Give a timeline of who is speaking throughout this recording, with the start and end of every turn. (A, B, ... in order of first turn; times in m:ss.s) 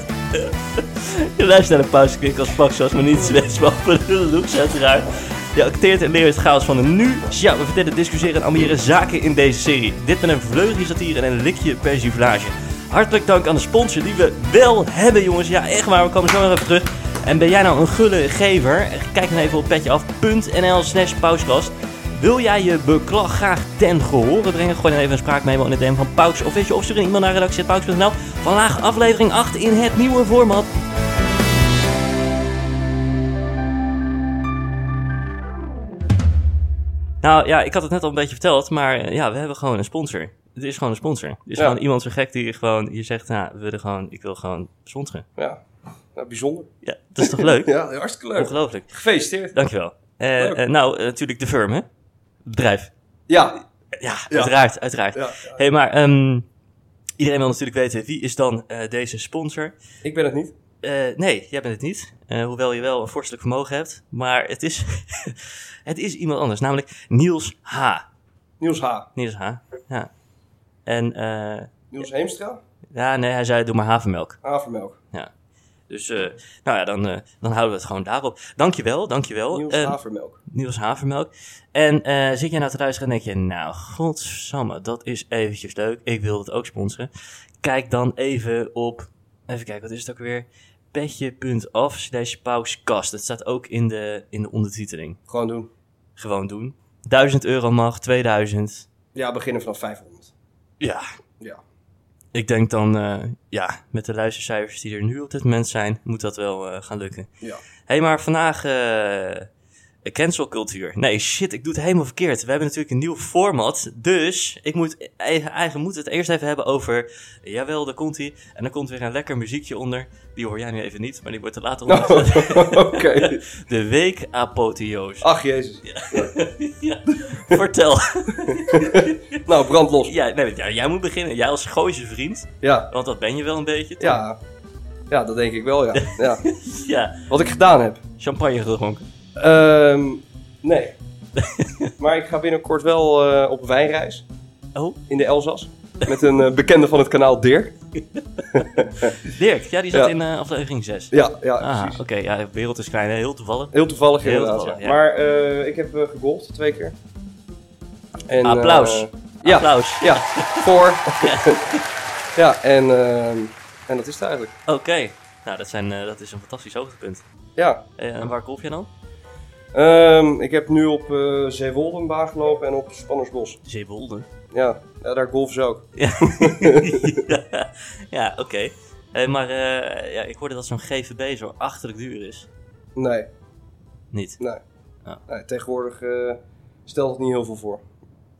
0:00.3-0:30.7 A
0:37.2-0:45.3 A
0:45.4-0:45.6 B
0:46.1-0:49.6 B
0:46.8-0:47.8 A
0:48.4-0:49.0 A
0:49.5-0:51.9 A
0:52.4-0:52.9 A
0:53.3-0:53.6 B
0:54.0-0:56.4 A
0:54.3-0:54.6 B
0:55.1-0:55.6 B
0:57.2-0:59.8 A
1:00.0-1:00.6 B
1:00.8-1:08.1 A
1:08.6-1:09.1 B
1:09.2-1:10.1 A
1:10.9-1:11.8 A
1:11.9-1:12.6 B
1:12.9-1:14.4 A
1:14.4-1:15.0 B
1:15.9-1:27.1 A
1:19.5-1:20.4 B
1:27.6-1:35.2 A
1:35.3-1:35.7 B
1:36.2-1:38.9 A
1:39.2-1:40.3 B
1:40.8-1:41.1 A
1:42.3-1:47.3 A
1:47.9-1:49.5 A
1:50.0-2:05.3 A
2:01.9-2:03.4 B
2:05.2-2:06.3 B
2:05.8-2:09.4 A
2:07.3-2:07.6 B
2:08.4-2:10.2 B
2:10.0-2:14.2 A
2:12.6-2:12.9 B
2:14.0-2:14.4 B
2:15.1-2:16.4 B
2:16.0-2:17.3 A
2:17.3-2:18.0 B
2:18.2-2:19.1 A
2:19.4-2:21.0 B
2:21.4-2:21.9 A
2:22.0-2:24.3 B
2:24.8-2:25.0 A
2:25.1-2:27.8 B
2:28.5-2:29.2 B
2:29.2-2:35.0 A
2:31.1-2:32.0 B
2:33.7-2:37.0 B
2:38.3-2:41.6 B
2:38.4-2:41.8 A
2:42.4-2:44.5 B
2:44.7-2:47.2 A
2:47.6-2:47.8 B
2:48.0-2:48.9 A
2:49.7-2:53.6 B
2:53.6-2:54.3 A
2:54.5-2:57.3 B
2:56.0-3:02.5 A
3:03.0-3:03.3 B
3:04.1-3:04.4 A
3:05.3-3:07.9 B